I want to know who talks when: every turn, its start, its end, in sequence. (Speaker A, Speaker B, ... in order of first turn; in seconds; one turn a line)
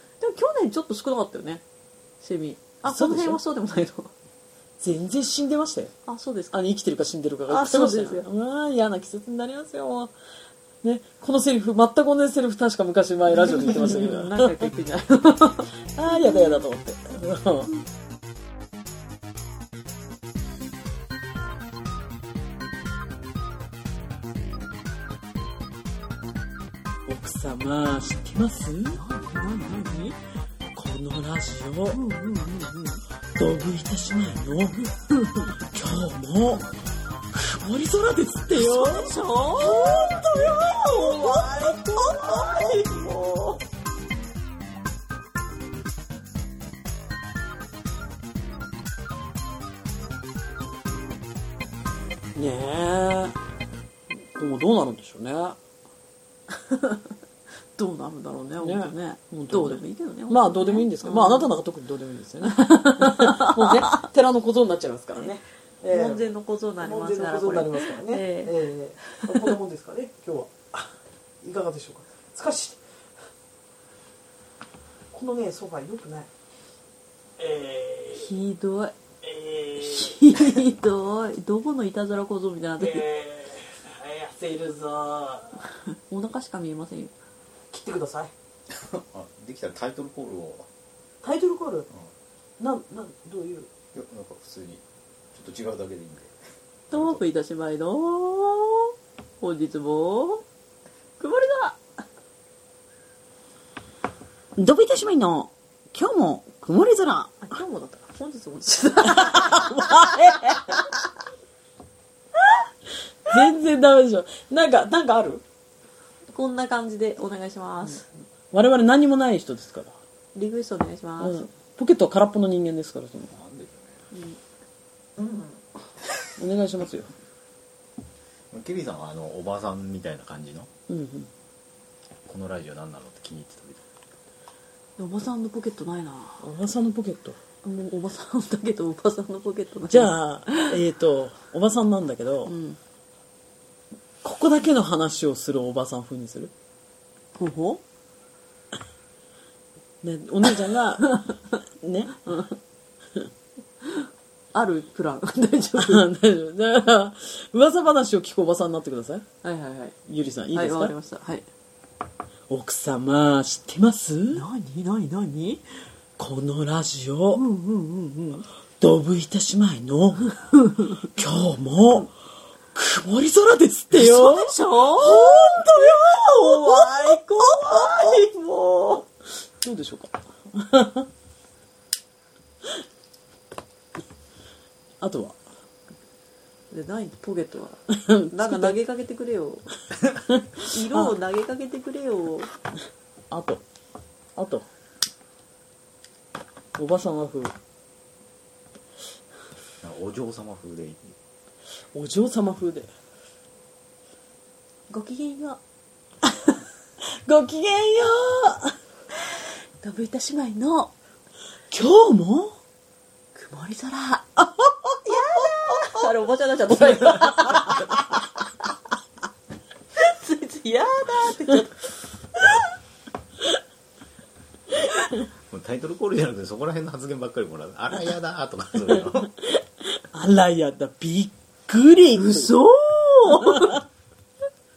Speaker A: 0.2-1.6
Speaker A: 2.2-4.1
Speaker B: 2.8-3.4
Speaker B: 4.8-5.9
Speaker A: 6.1-6.6
Speaker B: 6.5-10.1
Speaker A: 7.5-8.2
Speaker B: 10.8-14.6
Speaker A: 13.3-15.7
Speaker B: 15.9-17.7
Speaker B: 27.1-29.0
Speaker A: 28.9-30.2
Speaker B: 30.7-32.0
Speaker A: 31.9-33.0
Speaker B: 33.3-34.9
Speaker B: 35.7-36.7
Speaker B: 37.3-42.7
Speaker A: 38.5-43.6
Speaker B: 52.4-53.4
Speaker B: 54.4-55.6
Speaker A: 56.7-57.0
Speaker A: 57.8-61.5
Speaker B: 58.6-66.2
Speaker A: 62.5-63.9
Speaker A: 65.9-68.5
Speaker B: 66.8-70.9
Speaker B: 71.4-72.8
Speaker B: 75.1-76.3
Speaker B: 77.4-78.3
Speaker A: 78.1-78.9
Speaker B: 79.2-80.2
Speaker A: 79.8-83.0
Speaker B: 82.8-85.5
Speaker A: 86.1-87.1
Speaker B: 87.7-88.3
Speaker C: 88.7-90.7
Speaker B: 91.2-91.9
Speaker B: 92.6-93.7
Speaker C: 93.9-96.3
Speaker A: 96.9-100.4
Speaker C: 96.9-97.2
Speaker A: 101.2-101.8
Speaker B: 104.6-107.4
Speaker A: 107.4-110.9
Speaker B: 109.2-110.6
Speaker B: 113.2-115.4
Speaker A: 116.3-118.0
Speaker B: 118.5-120.0
Speaker A: 120.3-121.4
Speaker B: 121.2-123.3
Speaker C: 123.3-123.9
Speaker A: 124.1-124.4
Speaker A: 125.2-125.5
Speaker B: 126.4-127.1
Speaker C: 128.5-130.7
Speaker B: 130.9-131.3
Speaker C: 132.2-133.8
Speaker A: 135.0-136.4
Speaker B: 136.4-137.4
Speaker A: 137.6-140.8
Speaker B: 139.9-142.5
Speaker A: 142.4-142.8
Speaker B: 144.2-146.5
Speaker A: 147.3-147.8
Speaker B: 150.0-151.2
Speaker B: 151.8-152.3
Speaker A: 154.5-156.0
Speaker B: 155.8-159.2
Speaker A: 159.4-159.9
Speaker B: 160.1-160.9
Speaker A: 160.5-161.4
Speaker B: 162.5-164.4
Speaker A: 164.3-165.7
Speaker B: 166.2-167.4
Speaker A: 167.3-168.4
Speaker B: 168.8-170.3
Speaker B: 171.0-172.1
Speaker B: 172.7-177.9
Speaker A: 173.9-179.0
Speaker B: 179.6-181.1
Speaker B: 185.0-185.3
Speaker A: 186.7-189.7
Speaker B: 188.0-188.8
Speaker B: 190.3-191.1
Speaker A: 190.7-192.5
Speaker B: 193.3-193.6
Speaker B: 194.3-194.7
Speaker B: 196.8-197.5
Speaker C: 199.8-201.2
Speaker B: 201.9-202.9
Speaker A: 204.9-205.6
Speaker B: 207.2-208.7
Speaker A: 209.3-210.9
Speaker B: 211.7-212.5
Speaker A: 213.3-214.2
Speaker B: 214.5-214.9
Speaker A: 215.0-218.0
Speaker A: 220.0-222.6
Speaker C: 225.5-229.3
Speaker B: 229.9-232.5
Speaker A: 232.2-233.8